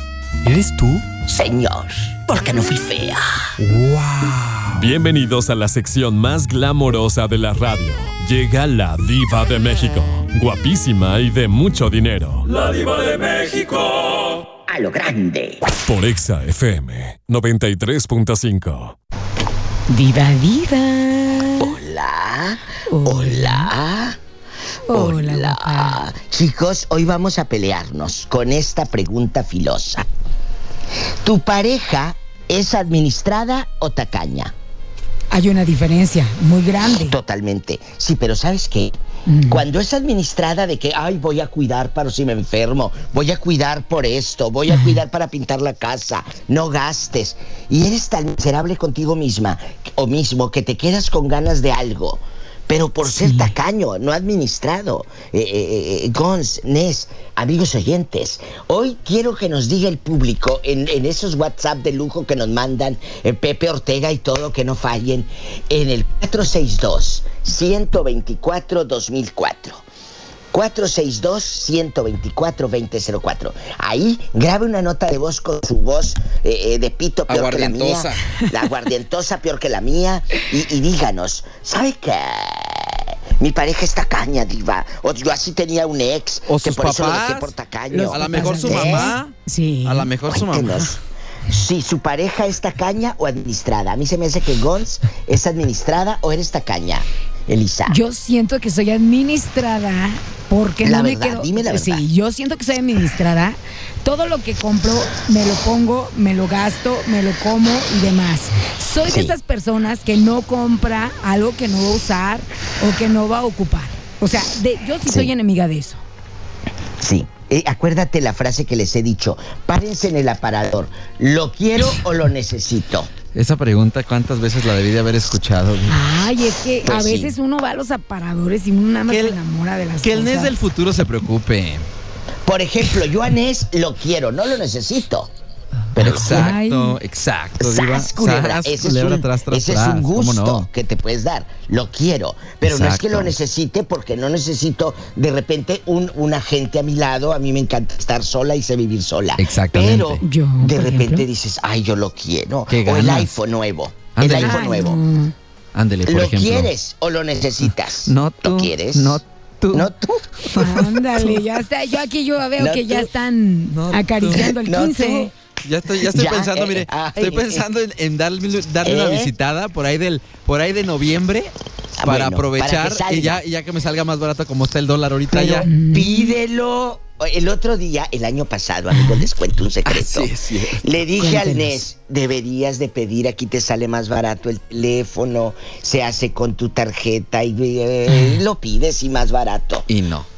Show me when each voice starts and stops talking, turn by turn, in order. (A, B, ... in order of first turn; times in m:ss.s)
0:00.4-0:01.1 A
0:01.3-0:03.5 B
0:03.6-0:04.9 A
0:04.8-0:14.4 C
0:14.7-0:15.6 B
0:15.9-0:19.0 C
0:19.9-0:21.8 D
0:21.6-0:24.2 B
0:22.9-0:23.7 D
0:24.9-0:26.0 D
0:24.9-0:30.1 B
0:31.2-0:34.5 B
0:35.3-0:37.2 D
0:37.0-0:38.9 B
0:39.3-0:39.6 D
0:39.5-1:09.8 B
0:44.7-0:45.0 D
0:53.1-0:53.5 D
1:10.5-1:29.2 B
1:17.3-1:18.2 E
1:26.5-1:27.5 E
1:27.9-1:30.1 D
1:28.1-1:29.3 E
1:29.8-1:30.9 E
1:30.3-1:38.0 B
1:37.9-1:56.0 D
1:40.8-1:42.0 B
1:49.1-1:49.4 B
1:55.1-1:55.3 B
1:57.0-2:03.1 B
2:03.3-2:06.0 E
2:05.9-2:10.5 D
2:06.8-2:07.4 B
2:09.1-2:09.4 E
2:10.0-2:11.9 E
2:12.5-2:15.3 B
2:16.0-2:16.5 B
2:16.0-2:20.7 E
2:16.2-2:17.0 D
2:17.6-2:35.0 B
2:22.6-2:23.3 E
2:29.4-2:30.2 E
2:30.2-2:31.3 D
2:32.7-2:33.3 E
2:34.2-2:34.8 E
2:34.4-2:35.3 D
2:35.8-2:36.7 E
2:36.1-2:40.3 B
2:37.6-2:41.3 E
2:40.6-2:45.3 D
2:42.6-2:43.1 B
2:43.7-2:44.4 E
2:44.3-2:45.3 B
2:45.6-2:55.7 E
2:46.0-2:47.7 B
2:48.8-2:49.3 B
2:52.0-2:53.4 B
2:55.3-3:09.9 B
2:55.6-2:56.3 D
2:58.9-2:59.2 D
2:59.8-3:00.8 E
3:01.2-3:01.8 D
3:09.9-3:10.3 E